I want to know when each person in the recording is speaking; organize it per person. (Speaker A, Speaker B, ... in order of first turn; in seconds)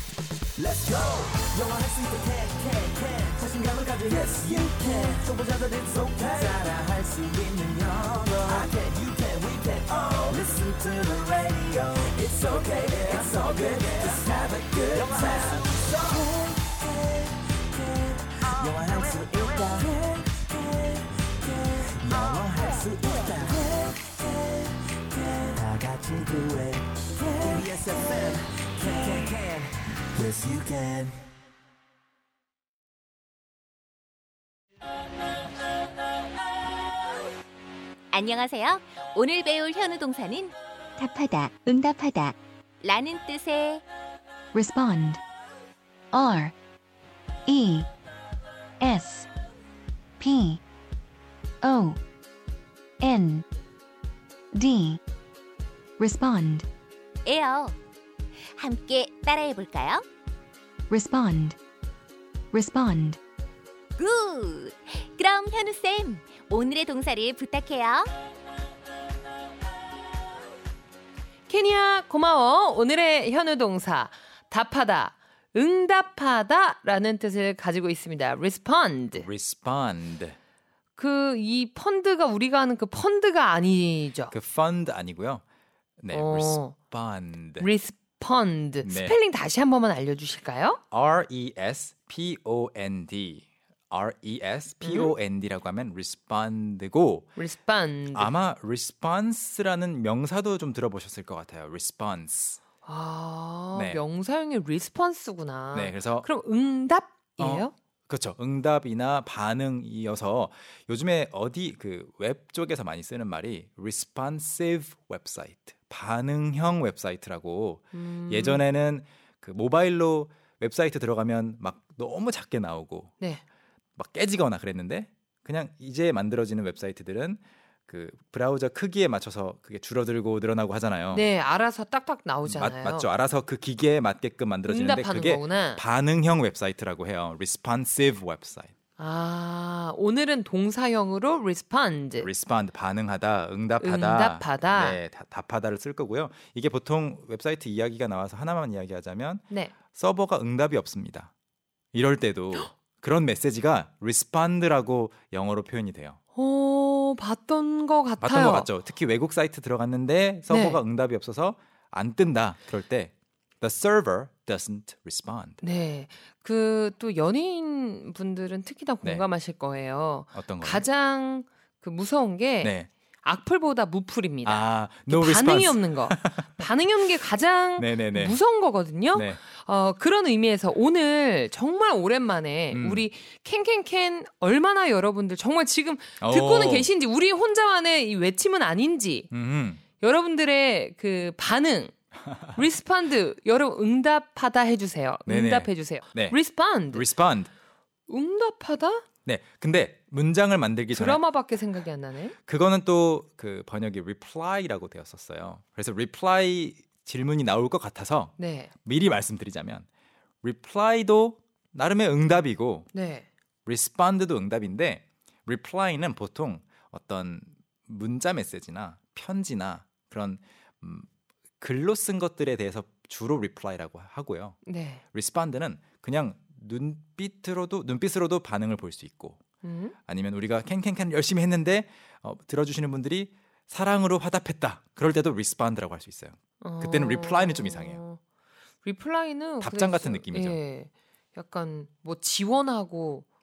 Speaker A: 0.6-16.6, 17.8-24.0, 25.1-31.1
Speaker B: 38.1-40.5, 41.6-43.8, 57.2-57.8, 58.6-60.0, 64.0-68.1
Speaker C: 41.0-42.1, 44.5-45.2, 46.1-46.5, 47.5-47.9, 48.8-49.3, 50.2-50.6, 51.6-52.0, 53.0-53.5, 54.5-55.0, 56.0-56.7, 60.9-61.6, 62.5-63.2
Speaker D: 71.5-79.3, 81.0-84.3, 86.1-86.8, 87.6-90.8, 94.8-95.1, 97.4-98.3, 102.8-107.7, 117.9-118.6, 131.1-133.1, 134.7-135.8, 139.0-142.3, 143.8-145.0, 156.3-158.7, 160.5-160.8, 165.6-189.3, 190.0-191.9, 192.5-197.1, 198.1-199.1, 200.9-202.3, 208.4-208.7, 212.9-213.3, 224.7-225.0, 229.6-229.9, 236.6-238.2, 238.8-243.3
Speaker E: 79.1-80.4, 84.3-85.4, 86.0-87.7, 88.8-89.2, 90.9-97.4, 98.1-102.6, 103.7-104.0, 105.7-106.3, 107.4-123.1, 124.0-131.3, 132.4-138.7, 142.2-151.3, 151.9-156.2, 158.2-165.6, 170.3-170.8, 172.6-172.9, 174.4-176.7, 177.8-178.4, 179.1-179.4, 182.7-183.1, 186.2-186.9, 189.3-189.8, 195.3-196.4, 196.9-197.5, 199.3-201.2, 202.4-209.9, 210.4-212.9, 213.7-221.1, 221.6-224.6, 225.1-229.4, 230.1-238.0, 239.6-240.6